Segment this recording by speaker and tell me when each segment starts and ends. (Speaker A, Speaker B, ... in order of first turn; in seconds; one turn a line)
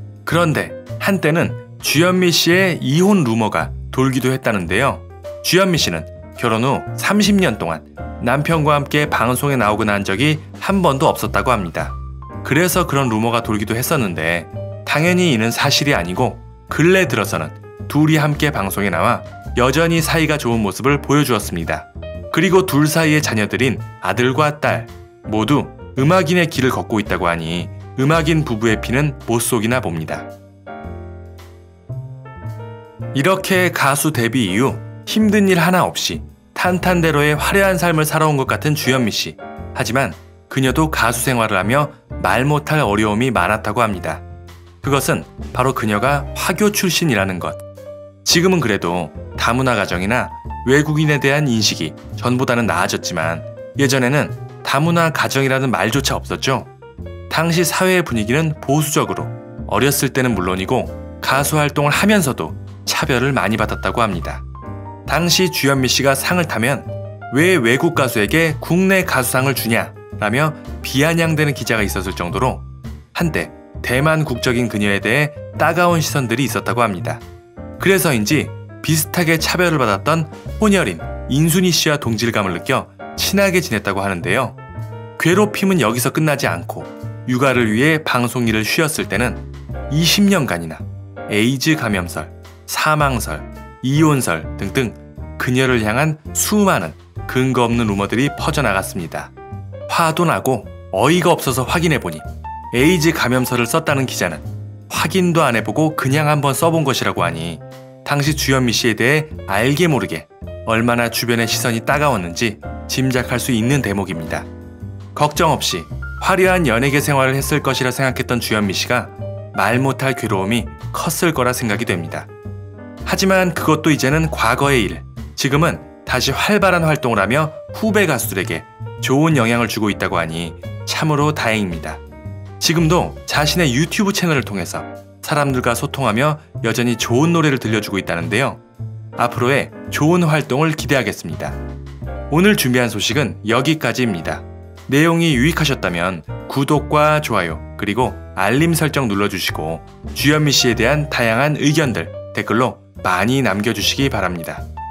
Speaker A: 0.2-30.3
Speaker A: 33.1-44.2
Speaker A: 44.8-47.6
Speaker A: 48.2-56.7
Speaker A: 57.3-64.4
Speaker A: 65.1-77.2
Speaker A: 77.8-84.6
Speaker A: 85.2-99.3
Speaker A: 99.9-114.5
Speaker A: 115.1-122.3
Speaker A: 123.0-132.0
Speaker A: 132.6-138.6
Speaker A: 139.2-141.6
Speaker A: 142.3-154.6